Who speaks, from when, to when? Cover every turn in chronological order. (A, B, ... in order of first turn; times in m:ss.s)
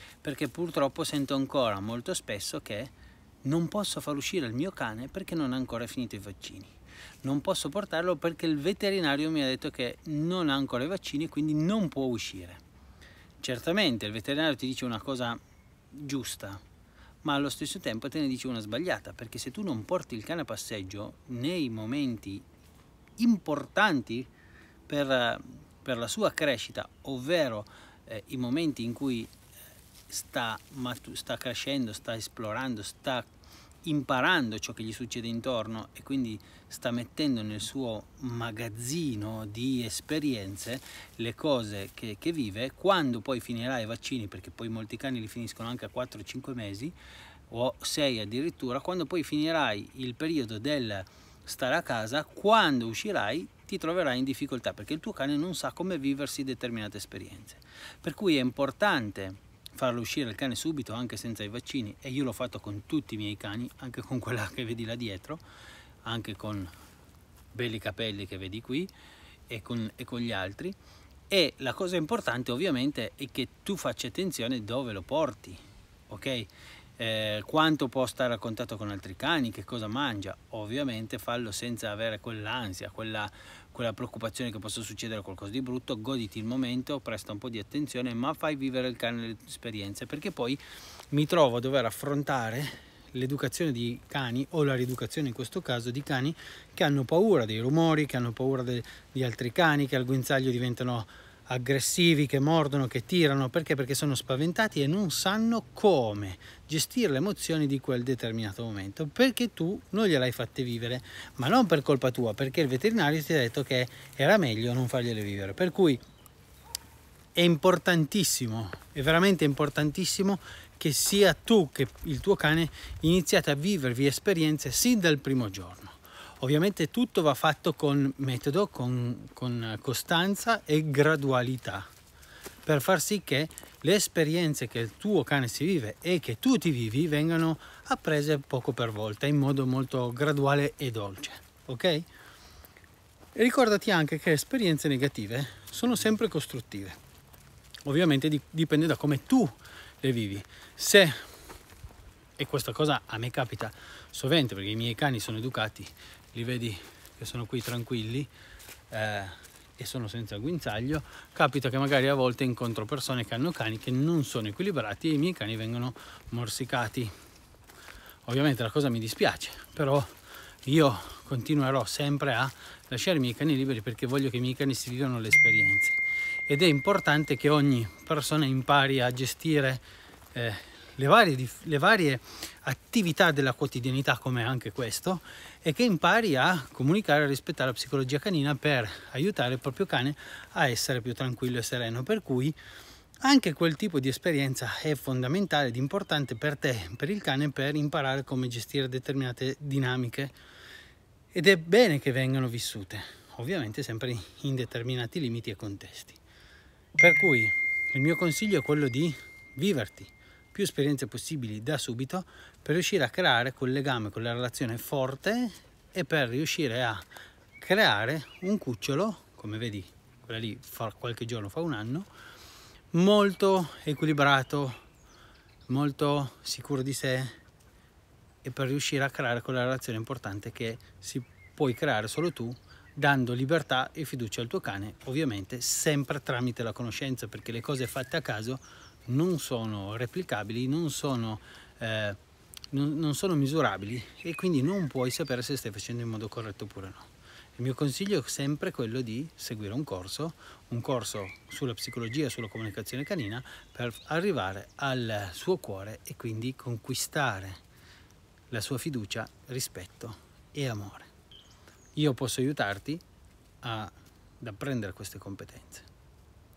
0:00.2-0:02.9 A
0:03.4-0:12.6 A
0:13.4-0:15.4 A
0:15.9-0:16.6 A
0:17.2-0:22.4 A
0:23.2-0:24.3 A
0:24.9-0:29.3 A
0:30.1-0:33.3 A
0:33.8-0:47.0 A
0:47.5-1:05.4 A
1:06.0-1:06.7 A
1:07.5-1:08.9 A
1:09.5-1:10.8 A
1:11.3-1:56.0 A
1:57.3-2:11.9 A
2:12.6-2:22.1 A
2:23.3-2:27.0 A
2:27.8-2:31.2 A
2:32.4-2:38.3 A
2:38.9-2:47.1 A
2:48.2-2:50.1 A
2:50.6-2:59.8 A
3:00.3-3:12.6 A
3:13.2-3:20.3 A
3:21.3-3:26.2 A
3:27.0-3:37.0 A
3:37.6-3:42.1 A
3:42.9-3:44.8 A
3:45.7-3:47.4 A
3:48.4-4:02.2 A
4:02.7-4:17.6 A
4:18.5-4:21.1 A
4:22.0-4:23.0 A
4:23.6-4:25.9 A